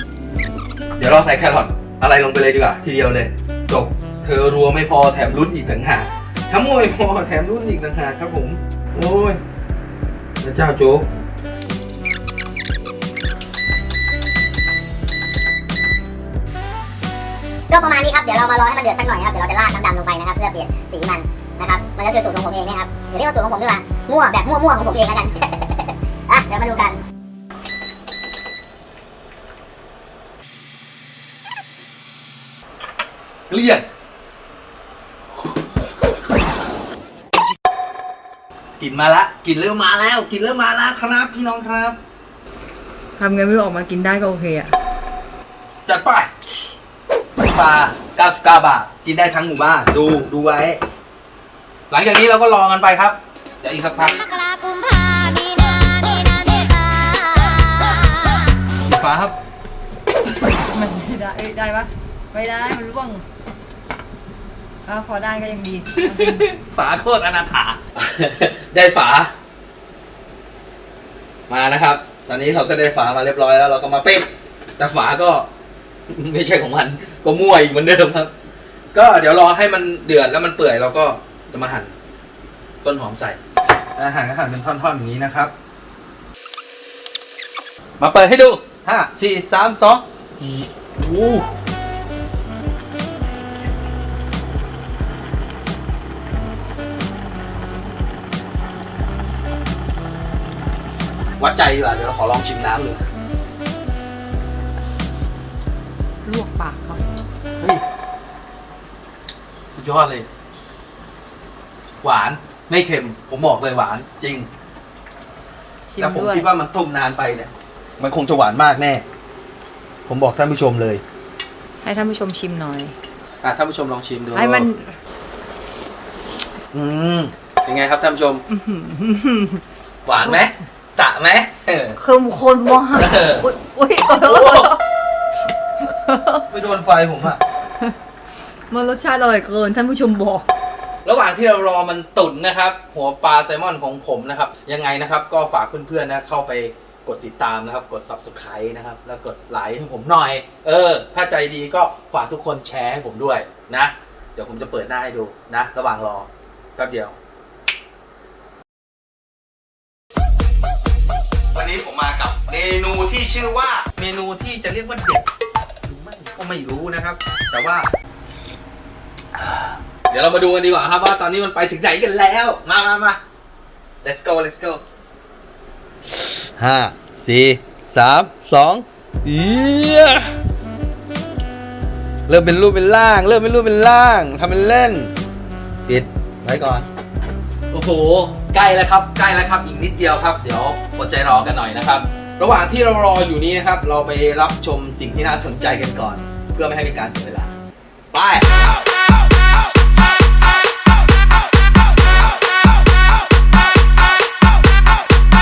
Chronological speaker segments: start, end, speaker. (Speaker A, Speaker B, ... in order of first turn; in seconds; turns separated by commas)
Speaker A: 1.0-9.4, Speaker A: 10.4-11.1, Speaker B: 17.7-27.0, Speaker A: 33.5-33.9, Speaker A: 38.8-42.0, Speaker C: 43.2-44.7, Speaker A: 45.9-46.3, Speaker A: 47.5-50.8, Speaker A: 51.9-54.4, Speaker D: 54.5-58.1, Speaker A: 58.8-59.4, Speaker C: 60.6-63.2, Speaker C: 64.9-66.5, Speaker A: 66.0-69.3, Speaker A: 71.5-75.5, Speaker A: 76.1-78.3, Speaker A: 78.9-81.9, Speaker A: 82.8-83.4, Speaker A: 84.0-85.5, Speaker A: 88.0-91.5, Speaker A: 101.4-103.0, Speaker C: 106.2-107.0, Speaker A: 109.7-110.3, Speaker A: 112.0-114.5, Speaker C: 115.9-116.5, Speaker A: 116.0-119.0, Speaker A: 120.1-121.0, Speaker C: 121.8-123.0, Speaker A: 123.4-124.7, Speaker C: 124.3-125.0, Speaker A: 126.7-128.4, Speaker C: 128.5-129.6, Speaker A: 130.1-132.0, Speaker C: 132.0-134.8, Speaker A: 132.9-133.5, Speaker A: 134.1-134.7, Speaker C: 136.0-136.4, Speaker A: 136.5-137.4, Speaker C: 138.7-140.5, Speaker A: 141.0-157.2, Speaker A: 161.5-165.3, Speaker A: 165.8-167.9, Speaker A: 169.4-173.2, Speaker A: 174.0-174.8, Speaker A: 176.6-180.3, Speaker A: 182.3-185.1, Speaker A: 185.9-186.9, Speaker A: 187.7-197.5, Speaker A: 198.1-198.5